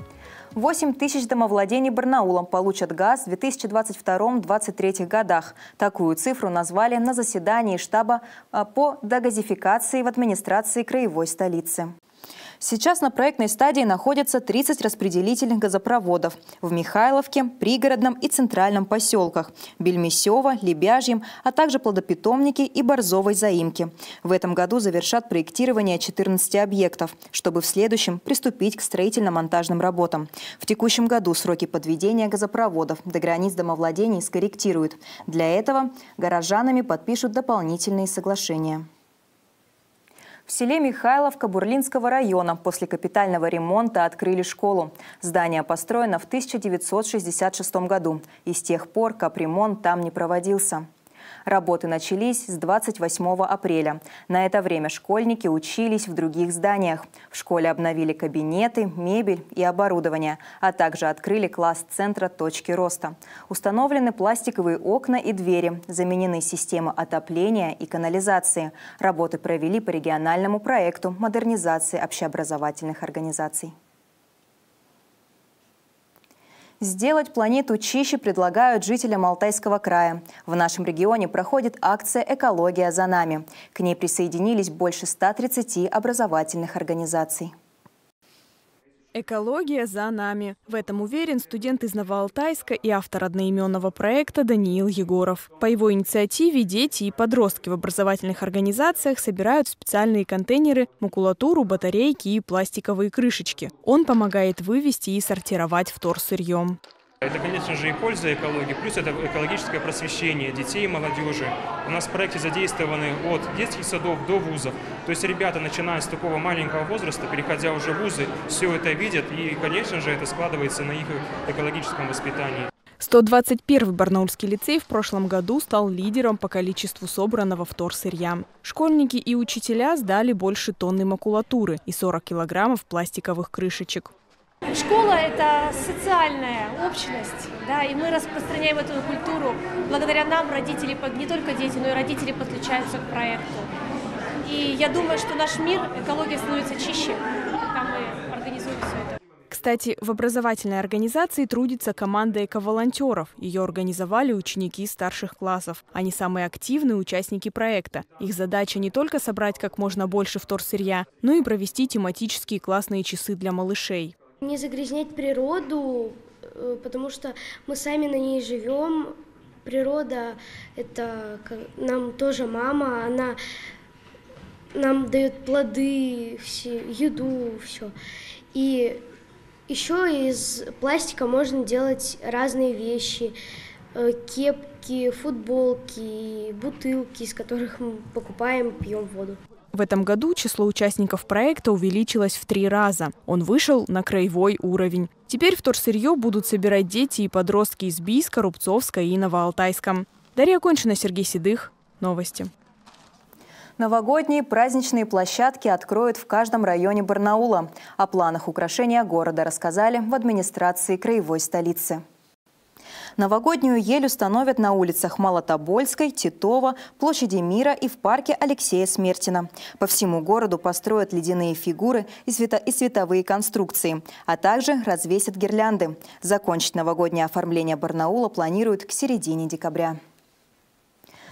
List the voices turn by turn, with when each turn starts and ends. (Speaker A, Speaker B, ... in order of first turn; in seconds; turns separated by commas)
Speaker A: 0.5-11.9, Speaker A: 12.6-38.9, Speaker A: 40.5-50.8, Speaker A: 51.5-73.7, Speaker A: 76.8-87.5, Speaker B: 89.1-106.8, Speaker C: 107.2-122.7, Speaker B: 123.0-134.1, Speaker D: 134.7-143.7, Speaker D: 144.4-149.2, Speaker B: 149.5-164.1, Speaker E: 164.4-173.4, Speaker E: 174.7-177.9, Speaker E: 178.5-179.0, Speaker E: 179.7-183.3, Speaker E: 183.9-189.4, Speaker B: 189.7-202.5, Speaker A: 203.8-212.0, Speaker A: 213.2-230.0